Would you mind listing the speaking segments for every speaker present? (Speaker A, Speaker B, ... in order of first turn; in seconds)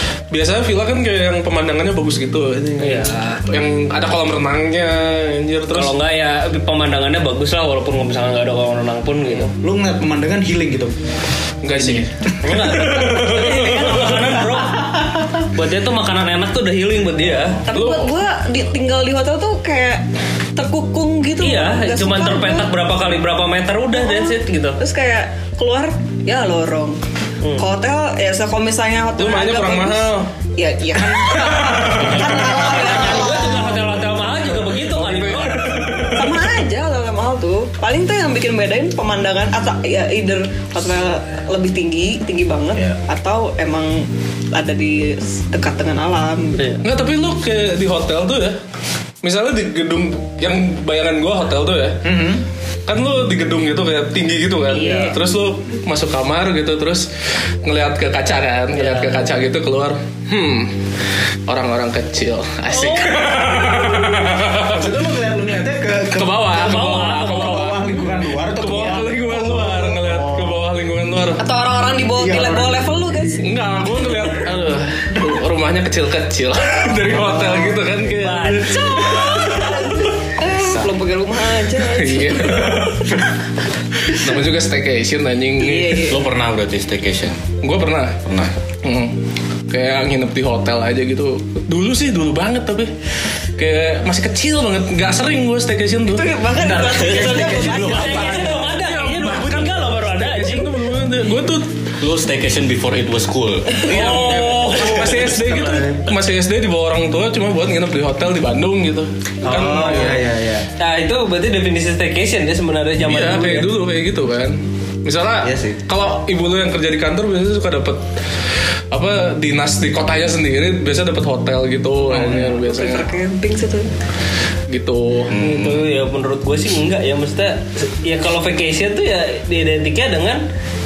Speaker A: 0.3-6.0, 11.6-14.3, 17.6-18.1, 29.2-30.3, 31.1-32.5, 34.9-36.6, 46.8-48.6, 49.2-52.0, 52.9-57.1, 57.6-60.8, 61.5-64.9, 66.1-67.8, 68.6-71.4, 73.4-79.9, 81.6-83.3, 84.0-86.1, 87.6-88.2, 88.8-89.2, 89.7-92.9, 93.6-96.4, 98.2-101.7, 103.8-110.2, 113.0-118.0, 118.9-123.1, 124.7-125.3
Speaker B: 2.8-3.4, 5.7-9.5, 12.4-14.9, 15.5-17.6, 21.4-24.8, 32.3-36.1, 54.7-55.2, 58.7-59.2, 62.8-63.2, 66.5-67.8, 78.1-79.6, 97.4-100.7, 103.9-104.5, 110.8-113.7, 125.3-130.4
Speaker C: 9.6-10.9, 11.7-12.1, 52.0-52.4, 64.6-70.6, 72.2-72.8, 80.6-80.9, 96.5-98.3, 105.5-105.8, 109.4-110.7, 115.4-115.8, 122.1-122.6
Speaker D: 17.7-20.0, 20.6-22.7, 24.0-27.0, 27.6-33.8, 36.1-46.7, 54.7-55.1, 71.4-73.5, 78.7-83.0, 85.6-86.2, 96.1-98.5, 122.3-123.9
Speaker E: 86.0-87.5, 88.2-88.6, 97.1-97.4, 102.0-106.2, 125.3-125.8